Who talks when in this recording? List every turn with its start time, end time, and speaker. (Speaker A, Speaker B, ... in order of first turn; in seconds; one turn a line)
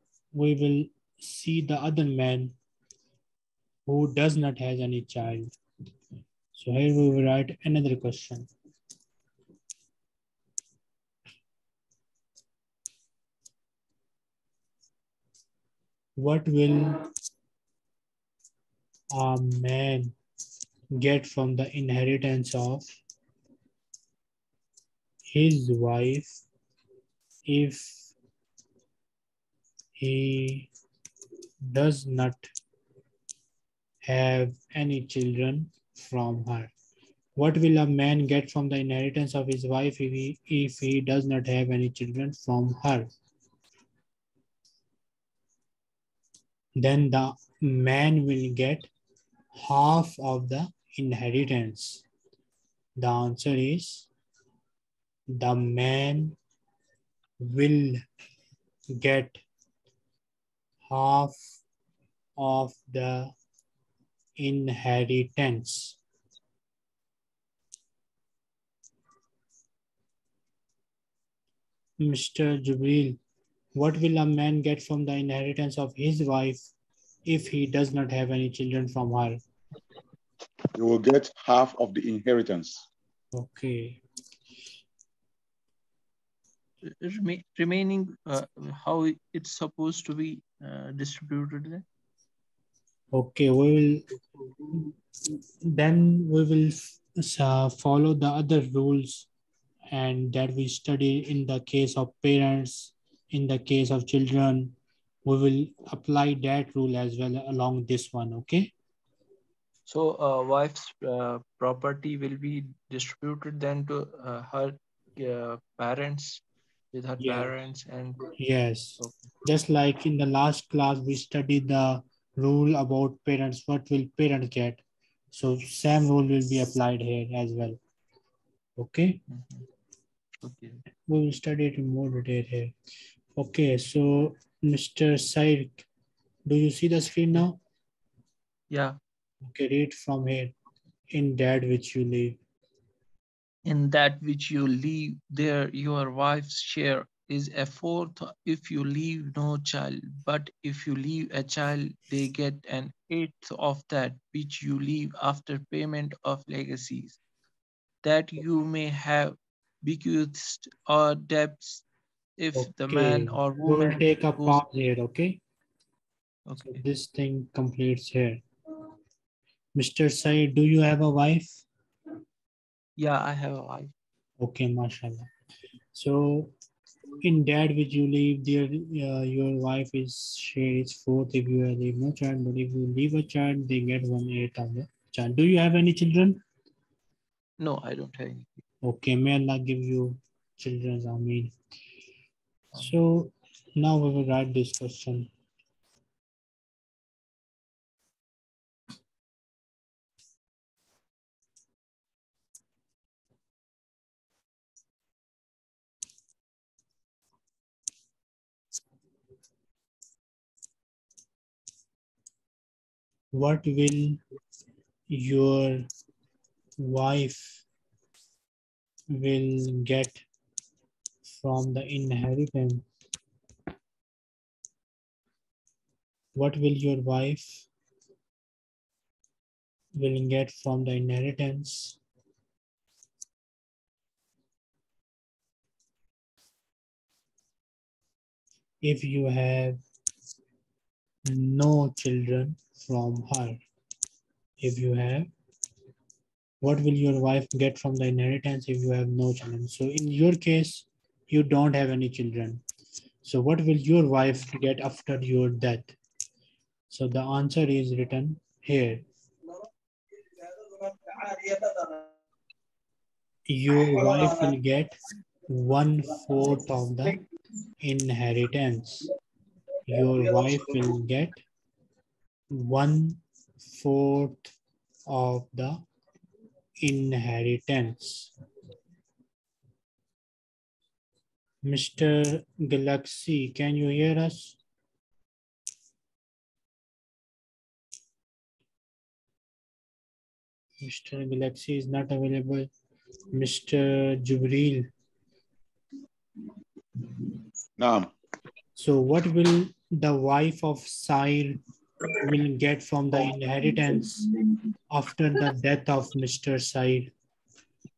Speaker A: 0.3-2.6
Speaker A: 3.9-5.5
Speaker A: 6.5-8.5
Speaker A: 16.2-17.1
Speaker A: 19.1-20.2
Speaker A: 20.9-23.0
Speaker A: 25.3-26.4
Speaker A: 27.5-28.1
Speaker A: 30.0-30.7
Speaker A: 31.7-32.5
Speaker A: 34.0-36.7
Speaker A: 37.4-43.1
Speaker A: 46.8-48.9
Speaker A: 49.5-52.0
Speaker A: 53.0-54.1
Speaker A: 55.3-56.4
Speaker A: 57.4-58.0
Speaker A: 58.9-59.4
Speaker A: 60.9-61.4
Speaker A: 62.4-63.3
Speaker A: 64.4-66.0
Speaker A: 72.0-73.2
Speaker A: 73.7-76.7
Speaker A: 77.3-79.4
Speaker B: 80.8-82.9
Speaker A: 83.3-84.0
Speaker C: 86.8-91.8
Speaker A: 93.1-94.0
Speaker A: 95.6-99.3
Speaker A: 99.9-108.7
Speaker C: 109.9-118.3
Speaker A: 117.2-117.5
Speaker A: 118.4-127.8
Speaker C: 119.0-119.3
Speaker A: 128.8-129.2
Speaker C: 129.3-129.6
Speaker C: 130.4-130.8
Speaker A: 131.1-132.7
Speaker A: 133.4-135.9
Speaker A: 136.5-137.6
Speaker C: 138.7-139.0
Speaker A: 139.4-140.5
Speaker A: 141.1-142.4
Speaker C: 143.7-157.2
Speaker C: 158.0-161.8
Speaker C: 162.4-164.6
Speaker A: 162.6-165.4
Speaker C: 166.5-166.8
Speaker A: 166.7-168.4
Speaker A: 169.8-171.7
Speaker C: 173.0-173.9
Speaker A: 174.4-175.3
Speaker A: 175.9-176.5
Speaker A: 177.2-186.4
Speaker C: 187.6-188.6
Speaker A: 188.8-191.5
Speaker A: 192.8-195.3
Speaker A: 213.3-214.2
Speaker A: 215.1-215.9
Speaker A: 216.8-217.7
Speaker A: 219.1-220.2
Speaker A: 221.3-222.8
Speaker A: 226.3-227.7
Speaker A: 230.0-232.0
Speaker A: 238.8-239.8
Speaker A: 241.2-243.6
Speaker A: 244.6-245.3
Speaker A: 246.6-252.6
Speaker A: 253.2-255.9
Speaker A: 256.9-259.1
Speaker A: 263.5-264.9
Speaker A: 265.5-267.2
Speaker A: 267.8-269.1
Speaker A: 269.9-271.4
Speaker A: 272.5-274.5
Speaker A: 275.1-275.8
Speaker A: 276.8-278.3
Speaker A: 281.6-284.6
Speaker A: 290.8-292.7
Speaker A: 293.3-294.9
Speaker B: 297.8-298.1
Speaker A: 298.8-301.6
Speaker A: 302.2-304.3
Speaker A: 304.9-307.1